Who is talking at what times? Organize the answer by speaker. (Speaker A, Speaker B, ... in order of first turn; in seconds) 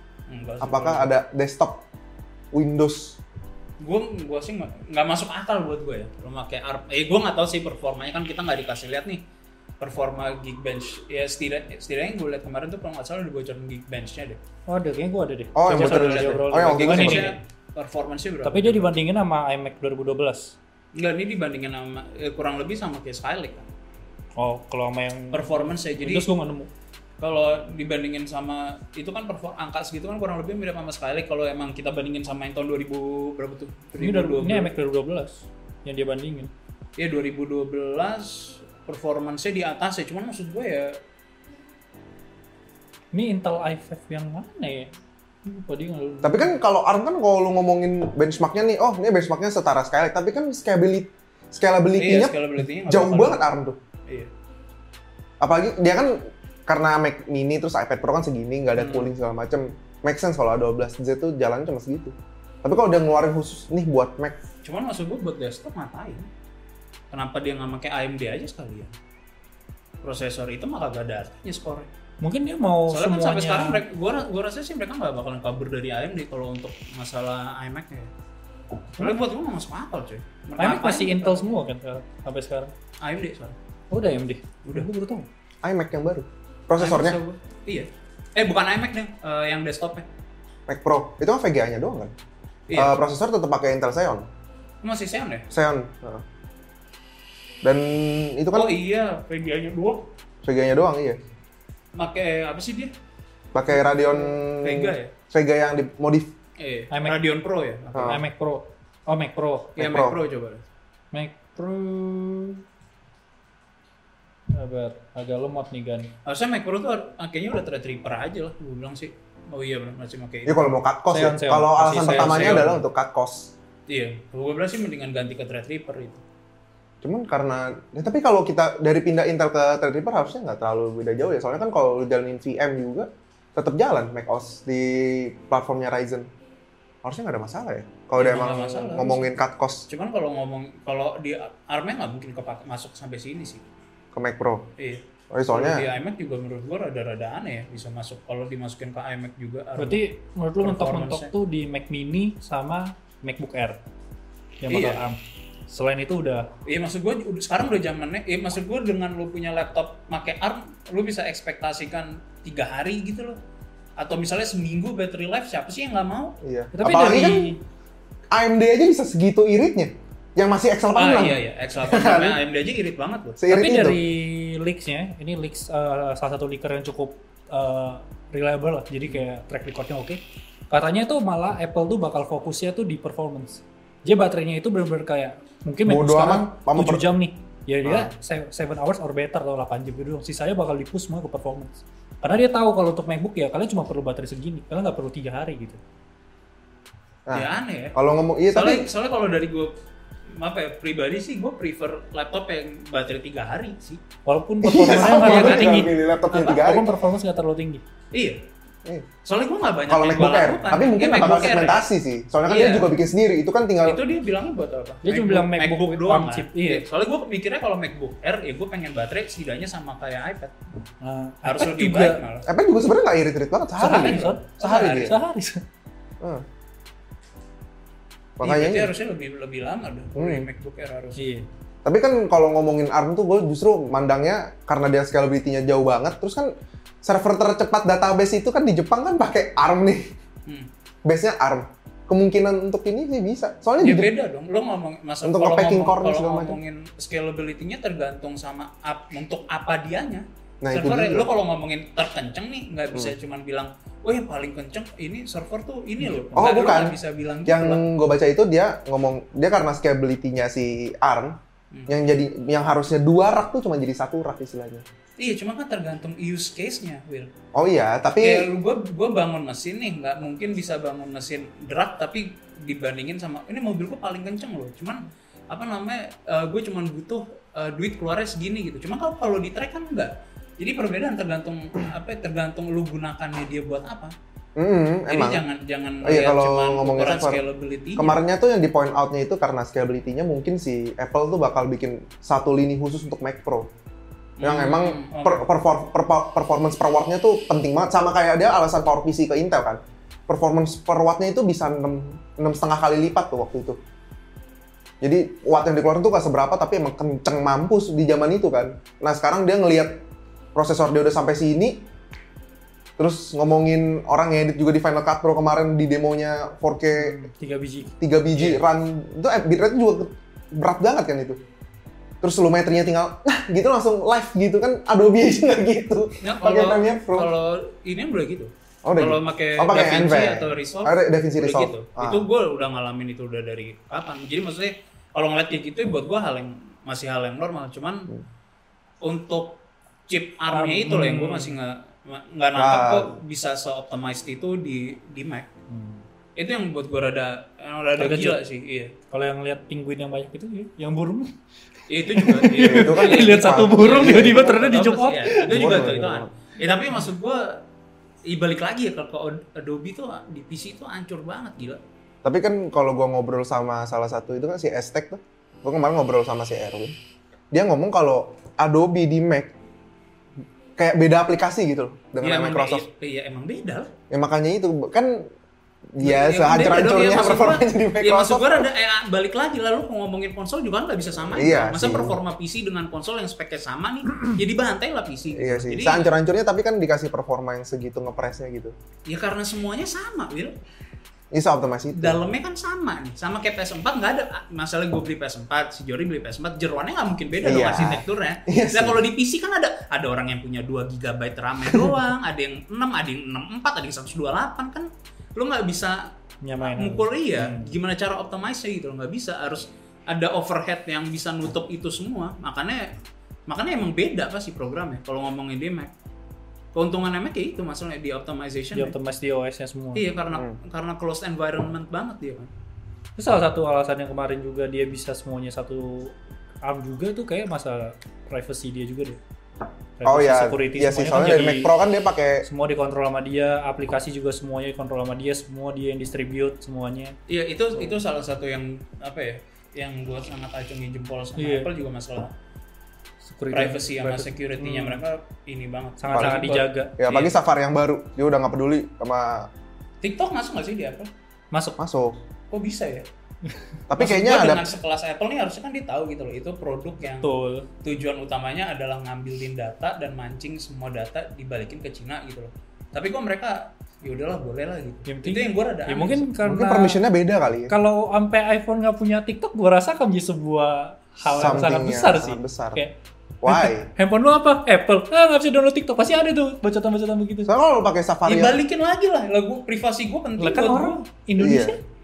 Speaker A: 0.3-1.1, 3.8-9.2, 9.8-14.4, 15.7-18.9, 20.9-23.7, 25.3-26.3, 27.2-34.7, 37.0-41.0, 52.0-53.5, 64.6-66.3, 67.1-68.9, 70.0-71.9, 72.9-78.1, 79.0-81.5, 83.0-83.6, 86.8-90.0, 92.7-93.0, 94.8-95.5, 98.5-100.1, 101.9-102.9, 104.4-105.1, 106.6-108.2, 109.8-110.7, 116.2-120.7, 122.0-122.7, 123.9-126.2, 138.2-139.3, 139.9-143.6, 144.8-150.0, 150.6-151.3, 154.7-155.0, 156.6-163.4, 164.0-166.4, 170.9-173.4, 197.3-198.0, 198.5-199.7, 200.3-204.0, 204.9-205.8, 208.1-208.4, 209.2-211.9, 212.4-212.9, 213.8-220.5, 221.4-222.5, 223.9-225.2, 228.4-231.2, 243.8-257.8, 265.2-267.3, 268.2-284.1, 285.1-288.2, 294.4-295.4, 318.4-318.6, 326.2-338.1, 339.0-345.5, 346.4-348.9, 351.9-357.6, 358.2-361.8, 372.2-373.9, 376.0-386.1, 389.1-390.6, 391.9-412.9, 413.5-415.9, 416.7-418.9, 419.9-422.5, 437.3-442.3, 443.5-446.5, 447.0-447.3, 450.0-451.1, 452.5-453.1, 454.0-457.3, 457.8-466.3, 478.2-481.0
Speaker B: 0.6-1.9, 2.5-3.2, 15.5-17.4, 46.2-53.8, 55.4-64.4, 85.6-87.2, 90.7-92.1, 92.7-94.3, 95.5-96.2, 97.6-98.8, 100.4-101.2, 103.5-106.3, 107.9-108.2, 109.8-110.2, 120.5-123.5, 127.0-136.3, 137.0-139.9, 144.1-144.7, 145.3-145.8, 166.4-167.6, 168.3-172.4, 173.4-174.0, 185.8-187.1, 187.8-188.1, 197.3-198.9, 204.6-206.9, 209.9-214.0, 222.4-225.2, 228.4-228.9, 230.1-230.5, 231.8-236.5, 237.0-240.1, 241.0-244.1, 245.2-246.6, 250.6-251.3, 256.4-264.8, 267.5-268.5, 284.6-285.4, 286.0-287.4, 288.0-293.7, 294.4-303.8, 305.0-310.0, 310.5-311.8, 313.0-317.2, 318.0-321.4, 322.2-327.3, 328.8-332.3, 342.6-343.2, 352.6-354.6, 355.5-356.3, 362.2-366.9, 367.5-369.5, 370.8-372.9, 374.1-375.3, 375.9-378.7, 381.3-382.2, 385.3-388.7, 391.3-392.2, 397.4-399.0, 420.3-420.6, 430.0-432.4, 446.1-449.5, 451.8-452.2, 453.9-454.8, 466.4-467.7, 471.2-472.8, 473.4-473.9, 477.5-478.6, 481.4-481.8
Speaker C: 14.7-17.4, 18.4-20.6, 24.4-26.7, 34.0-36.5, 43.1-44.9, 45.4-46.6, 72.2-73.8, 80.6-82.7, 83.9-85.3, 106.9-107.2, 108.0-109.8, 111.1-112.6, 114.5-116.1, 121.1-122.8, 149.8-153.8, 154.6-156.5, 166.7-167.6, 173.5-195.8, 204.2-207.8, 215.0-216.8, 221.0-222.2, 223.8-225.6, 231.2-231.5, 256.0-256.5, 316.9-317.9, 340.5-341.6, 345.7-346.0, 348.0-348.4, 349.1-351.3, 352.1-355.9, 406.4-407.7, 418.7-420.1, 423.2-429.2, 430.0-431.7, 432.4-437.1, 441.4-441.7, 443.2-445.0, 446.0-446.9, 451.5-451.8, 457.1-457.7, 465.1-467.0, 467.7-472.9, 473.5-477.5, 480.4-481.8